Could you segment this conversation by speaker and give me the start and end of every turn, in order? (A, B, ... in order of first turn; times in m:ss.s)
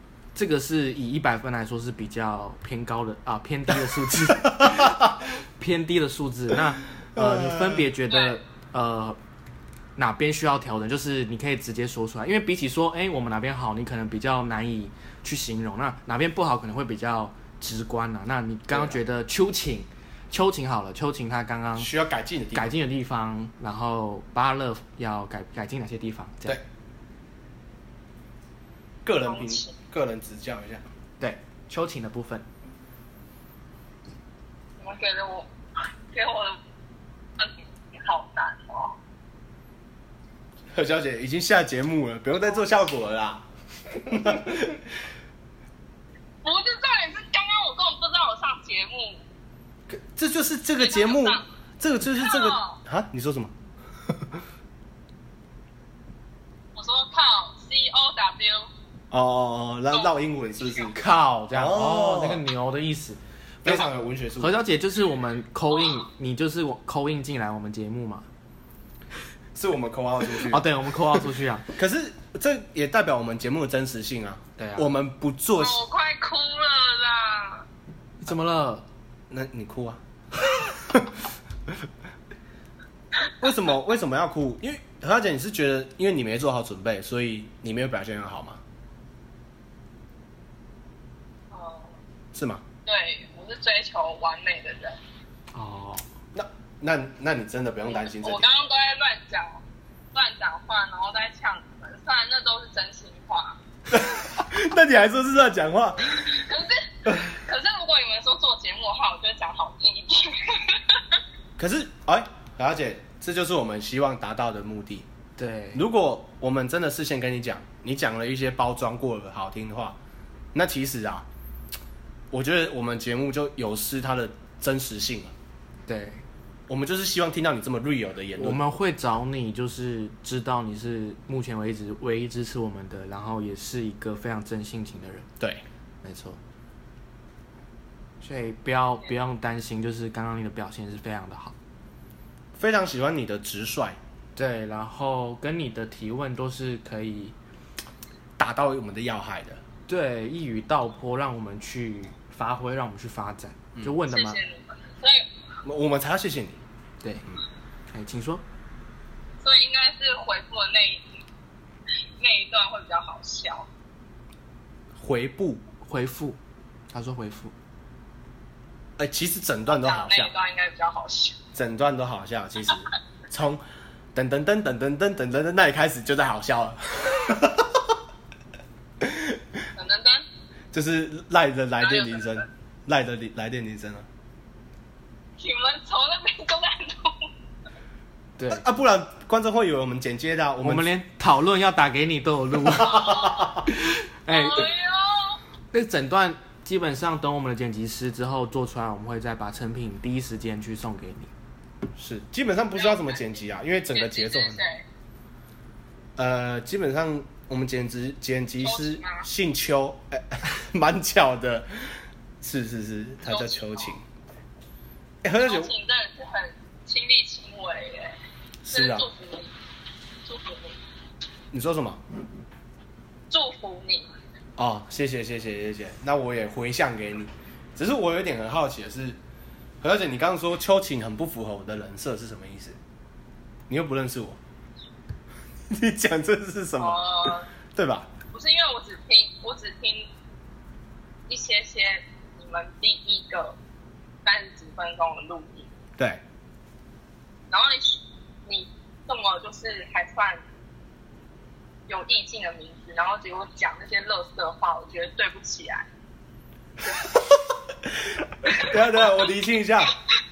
0:00.3-0:09.2 A
0:07.1-0:07.9 B
0:08.1-0:08.4 C
0:10.0-0:21.9 A
0:18.7-0:19.0 B
0:21.8-0:22.7 B
0:22.5-0:26.6 A
0:29.0-0:30.8 B
0:29.2-0:29.8 C
0:31.2-0:32.5 A
0:34.8-0:35.5 C
0:36.1-0:36.6 C
0:37.4-0:39.0 C
0:40.7-0:44.8 B
0:46.4-0:49.2 C
0:49.9-0:53.5 B
0:50.8-0:51.5 C
0:52.2-0:52.8 C
0:54.1-0:54.4 B
0:56.8-0:58.7 C
0:59.1-1:01.0 B
0:59.9-1:00.9 C
1:00.9-1:03.8 A
1:01.5-1:02.4 B
1:03.6-1:04.6 B
1:04.4-1:08.3 A
1:09.5-1:11.2 B
1:10.4-1:11.7 A
1:11.8-1:15.8 B
1:14.6-1:14.9 A
1:15.6-1:17.7 C
1:18.2-1:18.9 A
1:19.3-1:20.0 B
1:20.7-1:21.7 B
1:23.4-1:28.6 B
1:31.5-1:31.9 C
1:32.3-1:32.6 B
1:32.9-1:35.0 C
1:35.5-1:36.0 A
1:36.3-1:38.5 B
1:37.9-1:39.6 C
1:40.1-1:43.6 C
1:43.9-1:46.5 B
1:46.2-1:51.2 C
1:51.6-1:55.1 B
1:55.4-1:55.8 A
1:55.7-2:00.0 B
2:00.5-2:01.3 B
2:02.3-2:05.3 B
2:05.9-2:06.2 A
2:06.7-2:08.6 B
2:08.4-2:15.3 A
2:16.0-2:16.4 A
2:18.2-2:21.5 A
2:22.6-2:24.0 B
2:24.4-2:27.4 A
2:28.4-2:29.6 B
2:29.9-2:34.4 A
2:34.1-2:35.3 C
2:35.6-2:36.6 B
2:37.9-2:38.4 A
2:39.4-2:41.1 C
2:42.2-2:43.7 C
2:45.0-2:45.6 B
2:45.8-2:46.4 A
2:46.9-2:47.5 A
2:49.0-2:50.3 B
2:49.7-2:51.4 C
2:51.5-2:53.6 B
2:54.1-2:58.0 B
2:59.0-2:59.5 B
2:59.8-3:00.3 C
3:00.7-3:04.1 B
3:01.8-3:02.5 C
3:05.4-3:07.3 C
3:08.4-3:08.6 A
3:08.5-3:10.9 B
3:10.6-3:14.7 A
3:12.7-3:13.7 B
3:12.9-3:13.5 C
3:14.3-3:15.4 C
3:15.7-3:21.3 A
3:22.0-3:24.6 B
3:22.7-3:23.3 C
3:23.9-3:24.9 C
3:26.2-3:34.0 B
3:28.6-3:29.3 C
3:33.2-3:33.9 C
3:35.2-3:35.7 B
3:35.4-3:38.2 C
3:38.6-3:39.1 B
3:38.7-3:39.5 C
3:40.2-3:40.8 C
3:41.5-3:42.0 B
3:43.3-3:44.1 C
3:44.6-3:49.2 B
3:49.8-3:52.8 B
3:53.7-3:54.4 B
3:55.7-3:58.1 B
3:56.8-3:57.5 C
3:58.3-4:00.1 C
4:01.3-4:03.6 C
4:04.2-4:05.7 C
4:07.5-4:10.4 C
4:11.9-4:15.9 C
4:17.9-4:20.0 B